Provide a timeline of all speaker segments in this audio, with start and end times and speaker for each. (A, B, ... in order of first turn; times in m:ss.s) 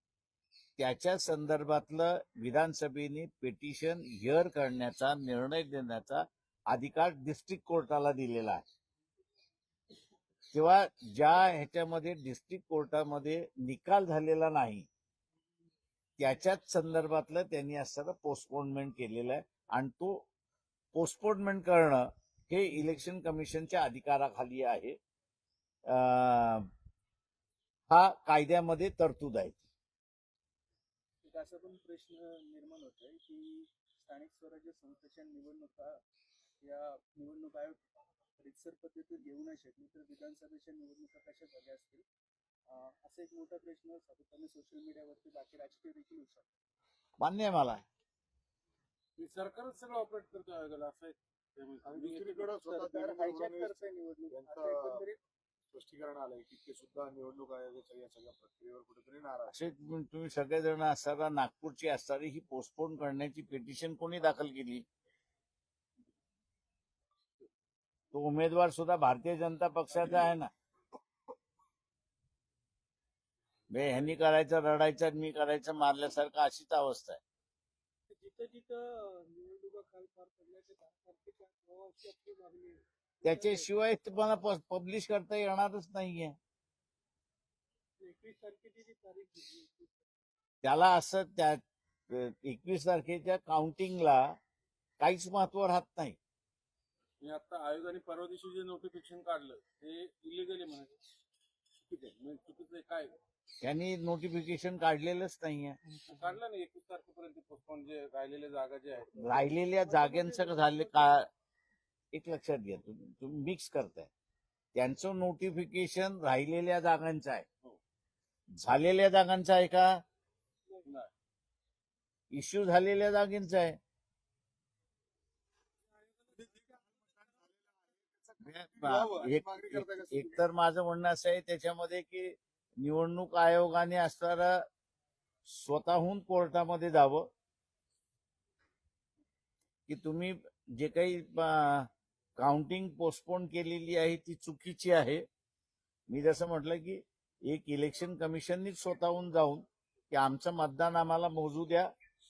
0:00.8-0:08.6 A
0:10.5-0:14.9 A
0:16.2-0:20.2 A
0:20.9-0:25.0 A
0:25.8-0:26.7 A
0:27.9-0:29.6 A
0:31.2-0:36.0 B
0:36.6-0:37.8 B
0:38.3-0:42.0 B
0:42.7-0:46.5 B
0:47.2-0:47.8 A
0:49.2-0:52.5 C
0:51.8-0:55.1 D
0:52.6-0:55.2 B
0:55.7-0:59.6 D
0:59.5-1:04.8 A
1:08.1-1:10.5 A
1:13.7-1:17.2 A
1:18.1-1:23.7 B
1:23.2-1:26.4 A
1:28.0-1:29.9 B
1:30.6-1:34.3 A
1:35.0-1:36.2 A
1:37.2-1:41.0 C
1:41.8-1:43.1 C
1:43.6-1:45.8 A
1:46.0-1:49.3 C
1:49.2-1:51.2 A
1:49.8-1:51.2 B
1:52.1-1:54.1 A
1:54.7-1:57.4 A
1:58.6-2:00.0 A
2:00.8-2:01.1 C
2:02.3-2:03.8 A
2:08.0-2:10.4 D
2:08.4-2:14.6 A
2:15.5-2:17.3 A
2:19.9-2:25.2 A
2:26.1-2:31.9 A